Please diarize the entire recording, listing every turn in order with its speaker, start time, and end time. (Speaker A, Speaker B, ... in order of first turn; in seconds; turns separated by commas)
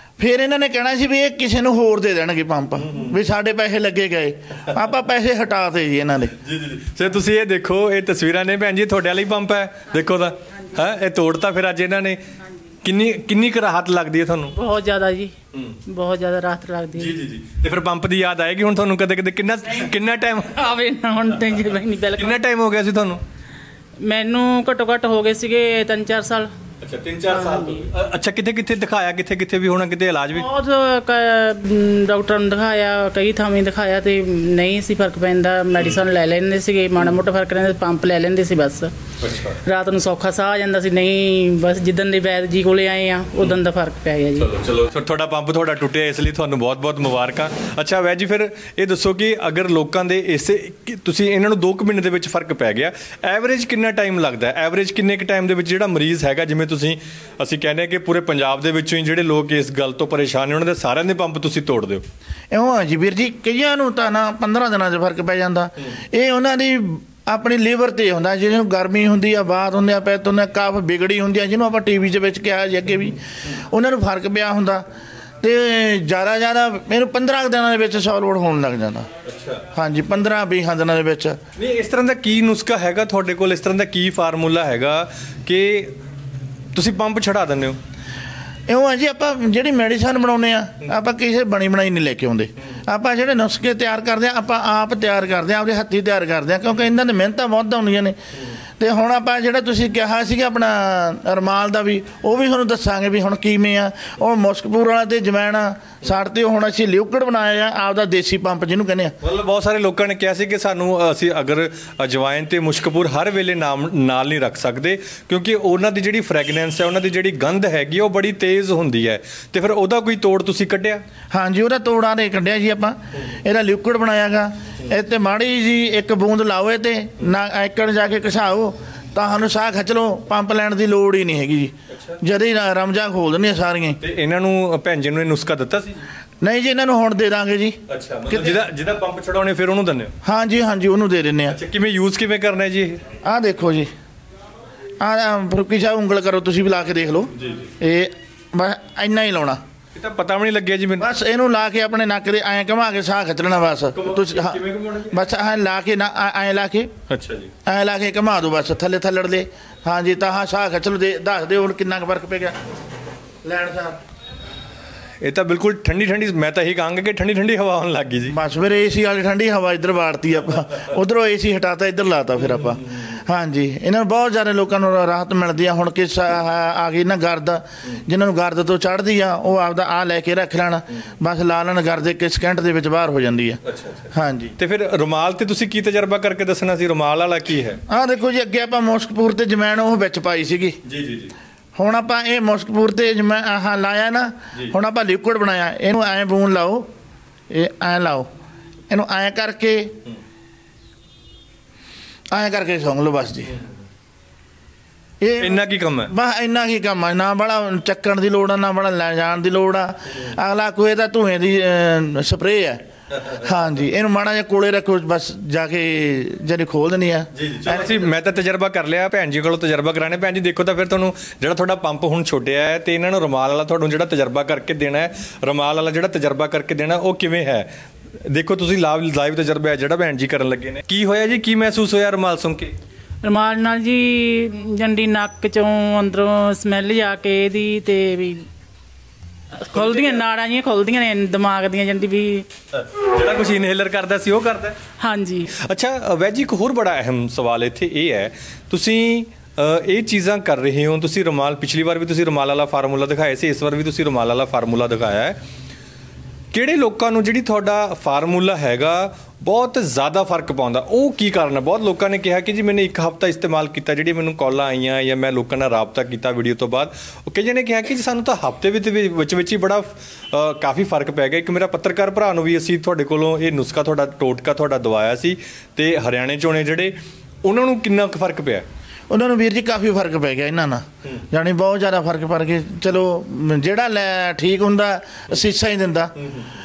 Speaker A: 0.2-6.4, Speaker B: 2.8-3.2, Speaker B: 6.4-12.3, Speaker B: 12.8-14.6, Speaker C: 14.6-15.3, Speaker B: 15.5-15.8, Speaker C: 15.9-17.2, Speaker B: 16.9-20.6, Speaker C: 20.4-22.4, Speaker B: 22.1-23.2, Speaker C: 24.0-26.5, Speaker B: 26.8-30.5, Speaker C: 27.3-27.9, Speaker C: 30.3-38.9, Speaker B: 39.2-39.6, Speaker C: 39.6-44.5, Speaker B: 44.4-62.0, Speaker A: 62.5-74.9, Speaker A: 75.4-79.1, Speaker B: 79.2-79.7, Speaker A: 79.7-81.4, Speaker B: 81.6-86.0, Speaker B: 86.7-87.8, Speaker A: 88.7-98.2, Speaker A: 98.8-109.2, Speaker B: 109.2-121.0, Speaker A: 121.3-134.0, Speaker B: 131.9-132.2, Speaker B: 134.0-136.1, Speaker A: 136.4-137.8, Speaker B: 137.9-140.1, Speaker A: 140.2-141.6, Speaker B: 141.5-143.0, Speaker A: 143.2-143.9, Speaker A: 145.0-149.6, Speaker B: 147.3-147.7, Speaker B: 149.9-151.1, Speaker A: 151.0-156.9, Speaker B: 153.9-155.2, Speaker B: 157.1-157.5, Speaker A: 157.7-162.6, Speaker A: 163.4-164.0, Speaker B: 165.2-168.4, Speaker A: 168.3-183.6, Speaker B: 183.6-187.8, Speaker A: 184.1-184.6, Speaker A: 187.9-190.8, Speaker B: 190.8-191.3, Speaker A: 191.8-196.9, Speaker A: 197.5-198.3, Speaker A: 198.9-200.0, Speaker A: 202.3-203.5, Speaker A: 205.2-218.1, Speaker B: 205.4-206.1, Speaker B: 217.3-227.7, Speaker B: 228.2-232.7, Speaker C: 233.2-238.5, Speaker C: 239.6-242.5, Speaker B: 239.7-240.2, Speaker B: 242.7-244.8, Speaker C: 245.0-245.5, Speaker B: 245.5-255.4, Speaker B: 256.5-278.7, Speaker A: 279.1-286.1, Speaker B: 286.2-286.5